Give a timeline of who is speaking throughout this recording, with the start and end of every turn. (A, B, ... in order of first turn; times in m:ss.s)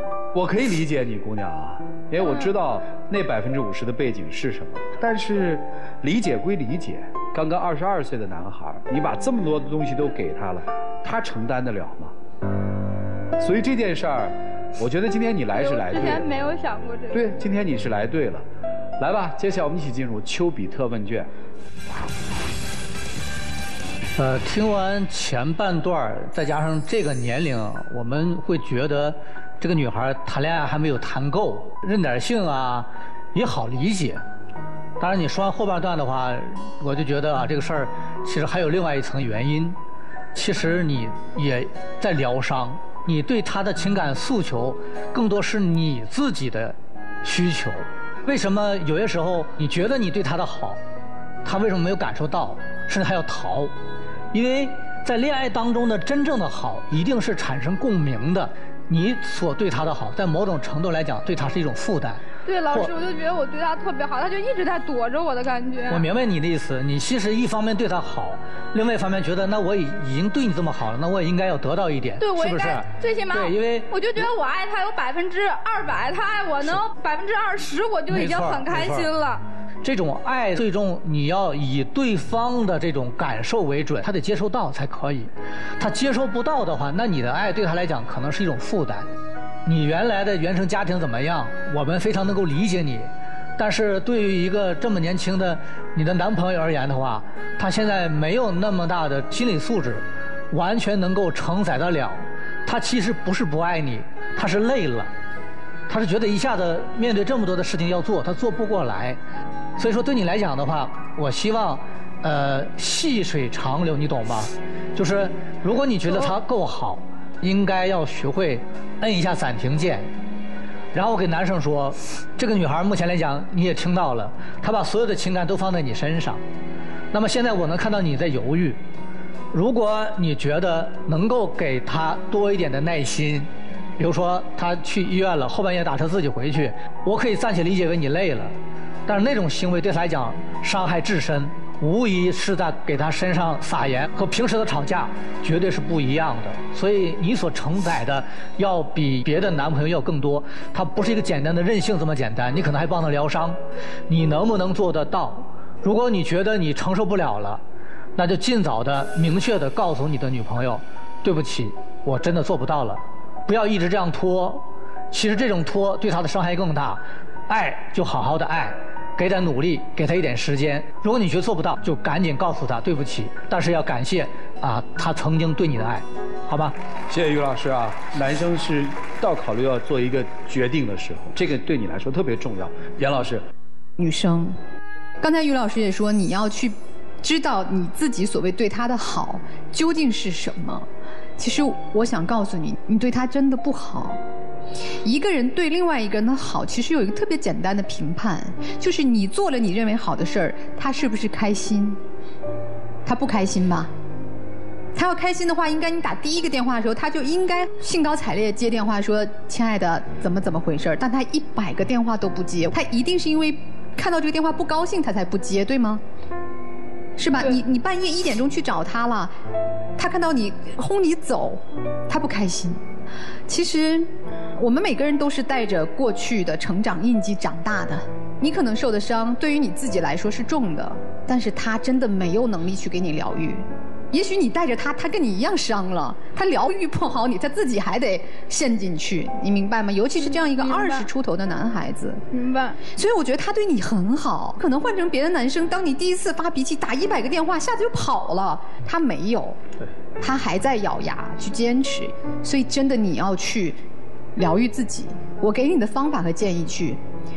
0:00.3-0:12.1 A
0:13.4-0:16.3 A
0:15.5-0:17.4 B
0:17.1-0:18.4 A
0:19.0-0:21.3 A
0:24.2-0:34.2 C
0:35.0-0:39.8 C
0:40.3-0:50.8 C
0:51.4-0:53.7 C
0:54.3-1:02.9 C
1:02.4-1:06.0 B
1:05.9-1:13.9 C
1:12.2-1:19.4 B
1:18.1-1:19.1 C
1:19.8-1:29.1 C
1:29.6-1:45.1 C
1:45.9-1:49.2 C
1:49.8-2:00.1 C
2:00.9-2:06.4 C
2:07.1-2:08.8 C
2:09.5-2:37.6 C
2:38.2-2:56.8 C
2:57.1-3:03.4 A
3:04.0-3:04.6 D
3:05.2-3:10.9 D
3:11.4-3:14.2 D
3:15.0-3:22.0 D
3:23.0-3:23.9 D
3:24.9-3:36.0 D
3:37.2-3:39.3 D
3:40.0-3:42.8 D
3:43.5-4:02.2 D
4:00.2-4:01.1 B
4:02.3-4:02.8 B
4:02.8-4:09.6 D
4:10.2-4:13.8 D
4:14.4-4:17.0 D